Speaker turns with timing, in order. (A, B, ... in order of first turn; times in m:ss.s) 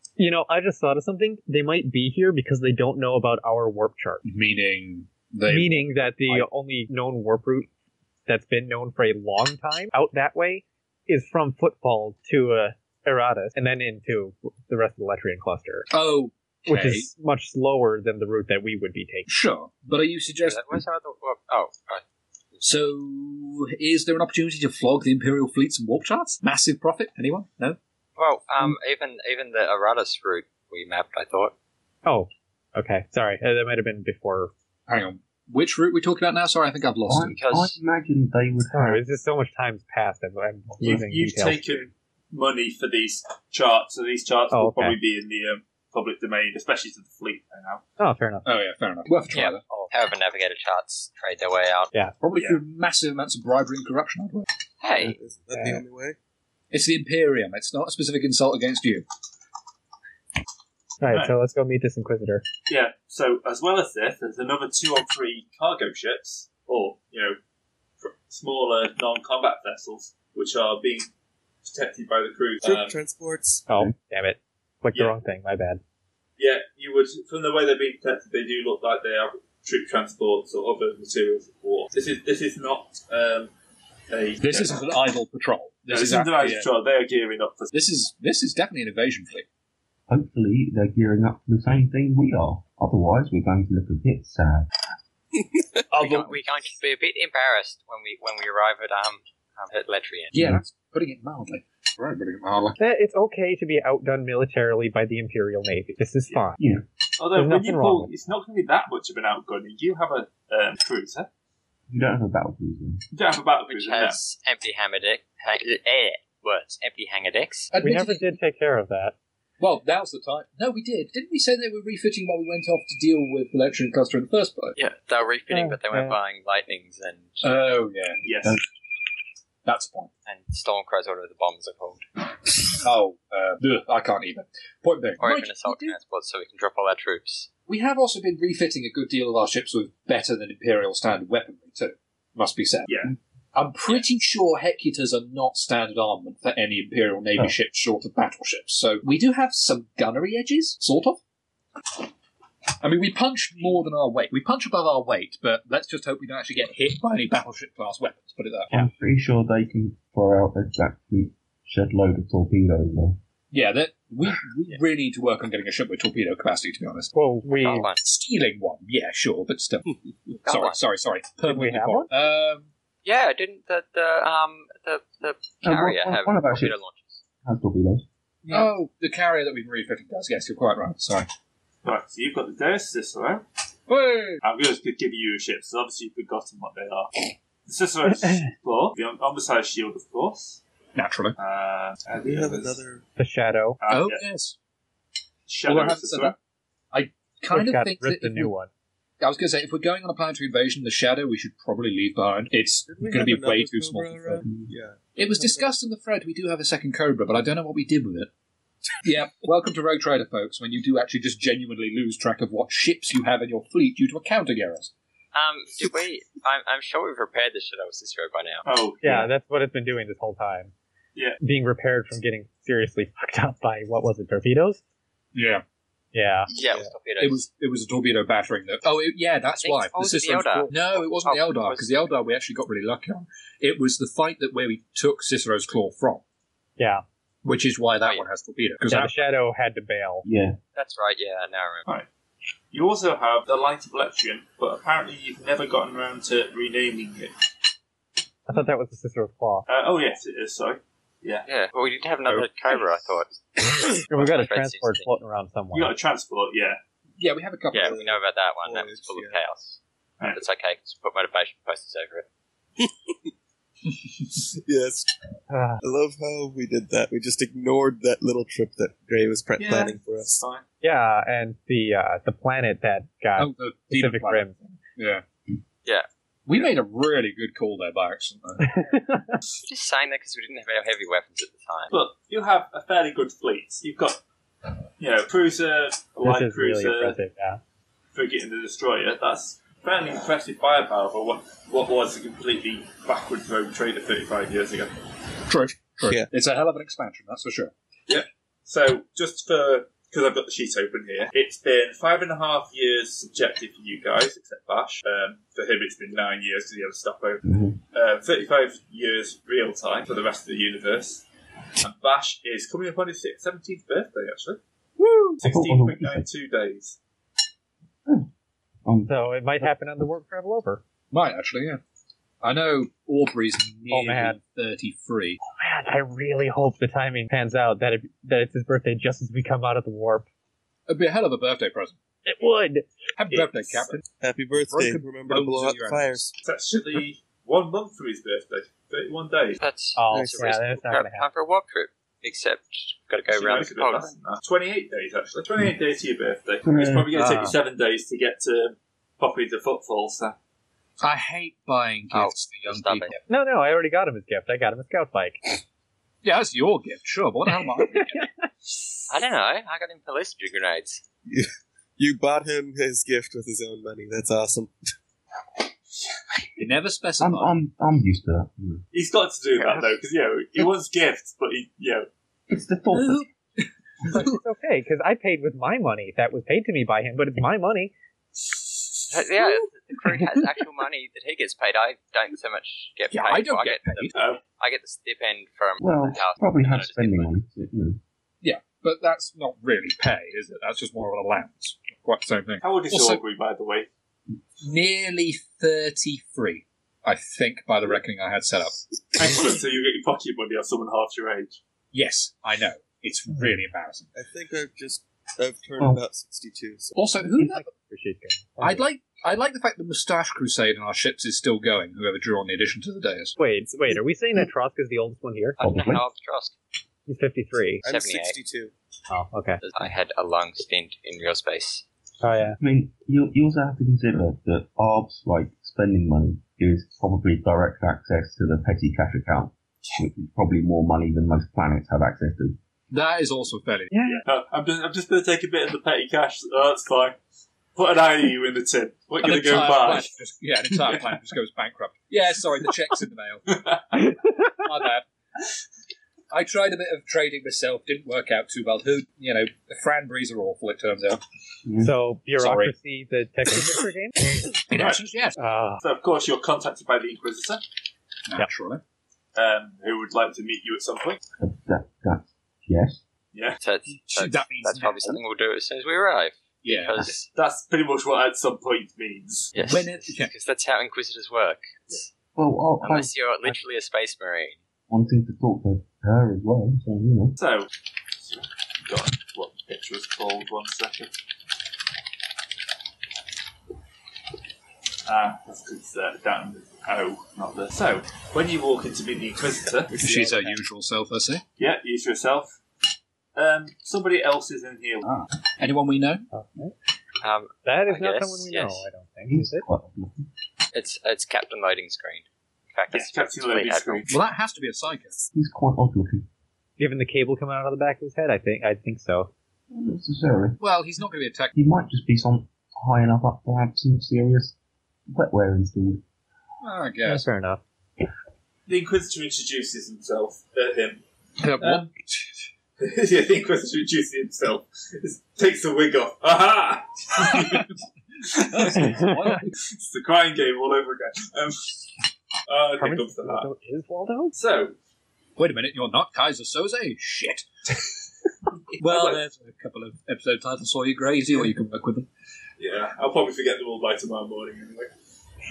0:00.2-0:04.2 A
0:04.2-0:06.4 B
0:05.5-0:07.7 A
0:08.3-0:15.9 A
0:15.9-0:17.1 B
0:16.7-0:19.3 A
0:19.2-0:20.8 B
0:20.4-0:22.0 C
0:22.5-0:22.8 C
0:22.6-0:27.8 B
0:28.2-0:31.5 C
0:32.0-0:34.5 A
0:34.9-0:37.4 B
0:37.1-0:39.0 D
0:37.3-0:37.7 C
0:38.7-0:41.7 A
0:40.8-0:47.8 E
0:44.5-0:45.0 A
0:48.0-0:48.5 A
0:48.4-0:49.8 B
0:49.3-0:51.9 C
0:52.2-0:54.5 B
0:54.8-0:55.2 C
0:55.0-0:56.2 F
0:55.5-0:55.8 A
0:56.7-0:59.0 B
1:01.0-1:02.4 A
1:02.7-1:07.4 E
1:08.0-1:11.1 E
1:11.6-1:13.0 E
1:12.6-1:13.6 F
1:13.7-1:15.8 A
1:16.4-1:23.5 E
1:24.1-1:24.8 E
1:24.4-1:26.7 B
1:25.9-1:27.7 E
1:27.7-1:29.4 B
1:30.1-1:34.7 D
1:35.9-1:36.4 B
1:35.9-1:40.4 C
1:40.3-1:42.8 B
1:42.8-1:46.6 A
1:46.6-1:46.8 D
1:47.2-1:51.3 E
1:47.3-1:48.1 A
1:51.9-1:53.0 D
1:53.1-1:54.2 E
1:53.7-1:57.7 C
1:57.7-1:58.3 B
1:57.8-1:59.1 A
1:59.6-2:04.8 B
2:04.8-2:07.4 C
2:05.5-2:06.1 A
2:07.4-2:08.5 B
2:08.2-2:08.6 E
2:09.6-2:10.1 B
2:10.2-2:12.0 C
2:12.8-2:16.0 B
2:15.2-2:17.5 C
2:17.7-2:22.9 B
2:22.9-2:23.1 E
2:23.5-2:31.2 B
2:32.8-2:38.7 B
2:38.7-2:43.2 D
2:43.5-2:47.1 B
2:47.1-2:47.9 A
2:47.6-2:48.0 C
2:48.0-2:49.8 B
2:50.4-2:50.8 C
2:50.5-2:52.7 B
2:51.5-2:52.1 A
2:53.0-2:57.2 C
2:55.6-2:56.8 D
2:57.4-2:58.0 D
2:58.5-3:01.3 B
3:01.8-3:03.4 E
3:03.9-3:04.4 B
3:04.4-3:10.6 E
3:10.9-3:11.4 B
3:11.4-3:12.8 E
3:12.0-3:13.0 F
3:13.2-3:13.8 A
3:13.8-3:14.2 E
3:13.9-3:14.5 B
3:15.5-3:16.4 E
3:15.6-3:16.3 B
3:16.9-3:18.5 B
3:17.5-3:18.7 A
3:19.2-3:24.4 B
3:22.9-3:25.7 F
3:24.4-3:24.7 D
3:25.2-3:28.3 B
3:29.0-3:34.9 B
3:35.3-3:38.6 C
3:38.6-3:39.3 E
3:39.0-3:40.7 A
3:41.4-3:44.8 A
3:45.3-3:45.6 B
3:46.1-3:46.5 A
3:46.5-3:46.9 F
3:46.5-3:47.4 C
3:47.2-3:56.2 B
3:49.6-3:51.9 C
3:56.8-3:57.0 A
3:57.4-3:59.1 B
3:58.9-4:00.2 A
4:00.2-4:00.6 D
4:00.7-4:01.8 C
4:02.7-4:07.3 E
4:08.5-4:09.7 A
4:09.7-4:11.5 E
4:11.5-4:15.1 C
4:14.1-4:15.9 A
4:15.7-4:16.8 E
4:17.2-4:18.0 B
4:17.7-4:19.8 C
4:17.8-4:19.4 F
4:20.3-4:22.2 C
4:22.8-4:23.3 F
4:24.3-4:25.1 F
4:25.5-4:25.8 A
4:25.8-4:30.4 F
4:29.6-4:30.6 E
4:30.8-4:34.8 A
4:33.4-4:34.4 B
4:35.0-4:35.2 B
4:35.8-4:36.7 C
4:36.4-4:38.8 B
4:38.6-4:39.4 A
4:39.6-4:41.9 C
4:41.9-4:44.2 E
4:45.0-4:47.2 E
4:46.2-4:47.6 A
4:48.1-4:55.0 E
4:55.5-4:57.7 B
4:56.0-4:56.3 F
4:58.1-5:11.2 E
5:07.4-5:07.8 D
5:11.8-5:14.6 E
5:15.0-5:15.3 B
5:15.4-5:16.3 D
5:15.4-5:17.0 E
5:18.8-5:19.7 D
5:19.1-5:20.8 A
5:21.1-5:21.8 B
5:22.4-5:25.4 B
5:23.9-5:24.4 A
5:25.4-5:30.2 A
5:30.9-5:32.0 B
5:32.2-5:32.9 A
5:33.2-5:34.0 B
5:33.3-5:34.0 E
5:34.2-5:36.3 F
5:34.6-5:36.3 B
5:36.4-5:39.6 E
5:39.6-5:44.1 C
5:40.0-5:41.2 A
5:40.1-5:40.5 F
5:43.3-5:50.4 E
5:46.6-5:47.1 D
5:47.2-5:47.5 A
5:51.0-5:53.2 B
5:52.1-5:53.1 C
5:53.3-5:55.5 A
5:56.2-5:58.3 B
5:58.0-5:58.2 A
5:59.1-6:01.0 C
6:01.2-6:04.7 F
6:06.6-6:07.5 B
6:07.2-6:08.8 D
6:08.9-6:12.1 E
6:09.6-6:09.9 C
6:12.5-6:13.3 D
6:12.9-6:14.4 B
6:14.0-6:17.9 A
6:19.1-6:27.4 C
6:23.1-6:24.2 B
6:24.1-6:24.4 E
6:25.8-6:28.0 D
6:28.4-6:33.2 B
6:32.6-6:33.9 E
6:34.6-6:38.8 B
6:39.2-6:41.6 E
6:41.9-6:44.1 B
6:44.1-6:46.9 F
6:46.9-6:47.6 B
6:47.2-6:48.9 A
6:48.6-6:53.3 B
6:53.4-6:55.6 A
6:55.6-6:56.5 C
6:55.6-6:56.0 D
6:57.0-6:57.8 A
6:57.8-6:58.4 C
6:57.8-6:58.7 F
6:59.1-6:59.6 A
6:59.6-7:01.8 C
7:02.2-7:02.6 A
7:02.6-7:12.6 D
7:12.9-7:13.9 B
7:13.9-7:14.2 A
7:14.1-7:17.2 E
7:17.7-7:20.1 E
7:19.2-7:25.1 B
7:23.5-7:23.8 E
7:26.3-7:31.2 B
7:31.6-7:31.9 D
7:31.8-7:34.2 A
7:32.4-7:32.7 B
7:34.7-7:35.3 B
7:34.7-7:35.0 E
7:35.4-7:35.8 A
7:35.8-7:37.6 E
7:38.3-7:38.8 B
7:39.3-7:41.2 E
7:41.4-7:43.0 D
7:43.3-7:43.6 E
7:43.6-7:47.3 C
7:43.9-7:45.2 B
7:46.6-7:47.1 B
7:47.3-7:49.5 E
7:49.5-7:52.1 C
7:49.6-7:50.3 B
7:52.4-7:53.6 D
7:52.8-7:54.6 C
7:54.9-7:57.4 D
7:57.4-8:01.1 E
8:05.0-8:10.5 E
8:09.9-8:11.4 B
8:11.6-8:12.6 E
8:13.3-8:15.0 E
8:15.0-8:16.2 B
8:16.3-8:16.7 A
8:17.2-8:18.8 C
8:17.6-8:19.7 A
8:19.3-8:20.2 D
8:20.7-8:24.0 C
8:22.9-8:24.1 E
8:24.1-8:25.2 B
8:25.3-8:26.2 D
8:26.8-8:29.3 A
8:29.7-8:30.6 D
8:30.6-8:31.5 B
8:31.5-8:34.5 D
8:35.1-8:36.0 D
8:36.6-8:37.2 B
8:37.0-8:37.6 A
8:38.7-8:41.0 E
8:41.4-8:41.9 B
8:41.6-8:41.9 E
8:42.8-8:51.8 E
8:47.3-8:47.7 B
8:48.2-8:49.5 B
8:48.8-8:49.2 A
8:52.5-8:53.5 E
8:52.8-8:54.3 A
8:54.3-8:54.7 E
8:55.4-8:57.5 B
8:58.7-8:59.2 E
8:58.8-9:02.1 B
9:02.6-9:04.9 E